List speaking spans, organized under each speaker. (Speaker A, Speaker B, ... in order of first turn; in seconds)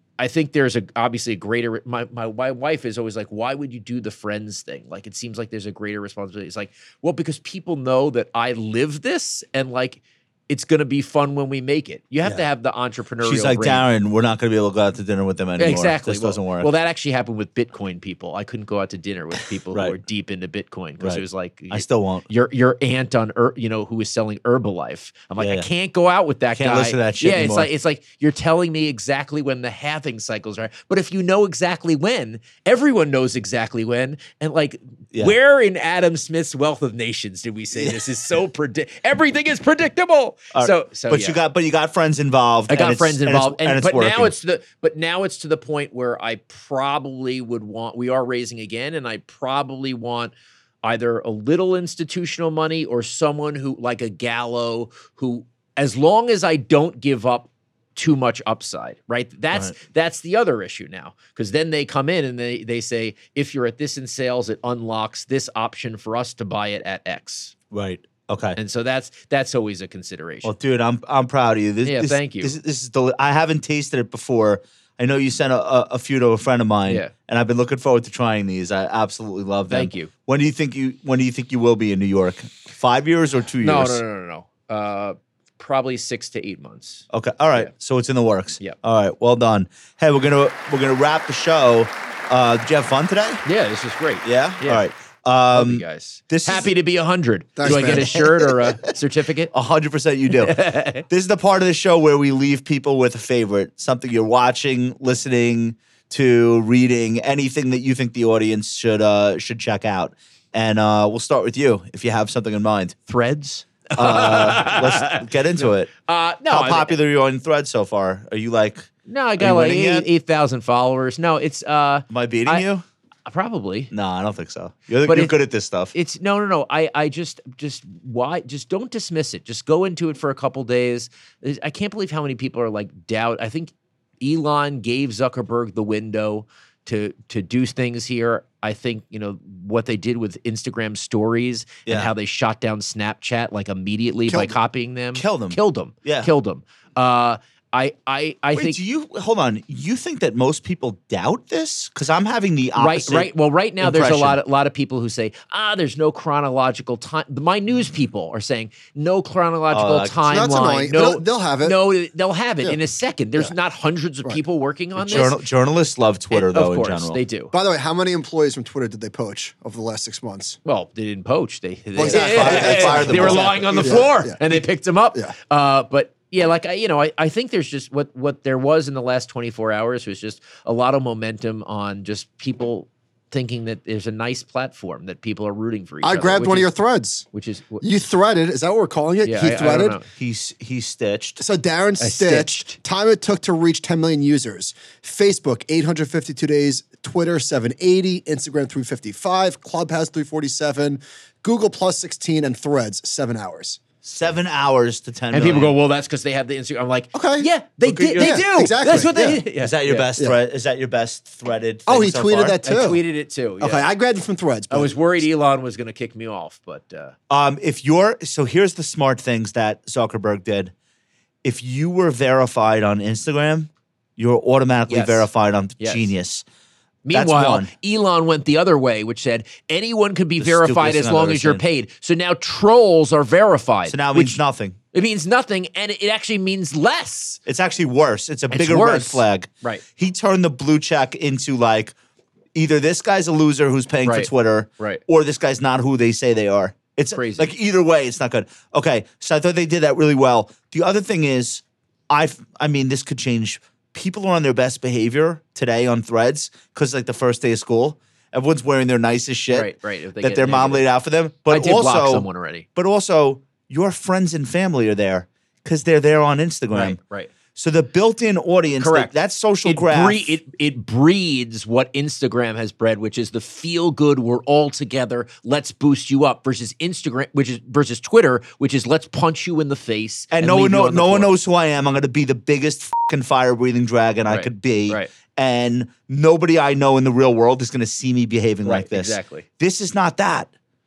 Speaker A: 0.2-13.9, 15.6-41.4, 42.7-50.3, 50.8-67.5, 68.6-70.5, 71.8-72.5, 76.9-77.1, 79.7-80.1, 83.6-87.7, 93.5-94.8, 95.5-99.5, 100.3-101.0, 113.1-117.0, 119.1-122.7, 123.3-123.9, 125.1-125.4, 125.9-148.8, 152.8-165.4, 166.3-167.5, 170.7-186.7, 187.3-187.8, 189.2-190.1, 192.0-192.8, 205.3-210.1, 212.6-213.8, 214.7-217.2, 224.9-225.3, 225.8-226.1, 227.1-234.4, 234.9-237.4, 238.5-239.8, 244.1-245.0, 247.1-247.5, 259.5-260.9, 261.5-262.7, 266.7-267.3, 268.8-281.3, 284.3-285.1, 288.6-289.5
Speaker B: 13.2-16.7, 21.0-22.2, 25.4-25.7, 26.6-27.7, 40.5-44.3, 67.7-68.6, 70.4-84.0, 87.1-93.4, 94.2-96.7, 97.6-98.2, 99.5-113.0, 114.0-115.9, 116.5-120.1, 122.1-122.8, 123.9-125.9, 141.9-142.1, 145.2-146.3, 148.6-153.3, 153.8-154.4, 159.7-160.3, 165.0-167.2, 172.0-174.1, 190.2-191.4, 204.0-205.8, 207.8-208.7, 209.6-212.6, 217.3-220.7, 221.4-226.4, 227.1-227.7, 230.4-231.6, 233.9-234.8, 237.5-241.9, 242.6-259.7, 260.2-267.0, 267.6-270.2, 280.3-290.5
Speaker C: 97.6-98.5, 144.3-144.6, 160.3-161.8, 167.5-170.6, 171.9-174.6, 186.0-187.3, 187.8-190.0, 191.4-203.8, 207.1-207.5, 208.2-209.4, 211.9-213.0, 213.6-214.9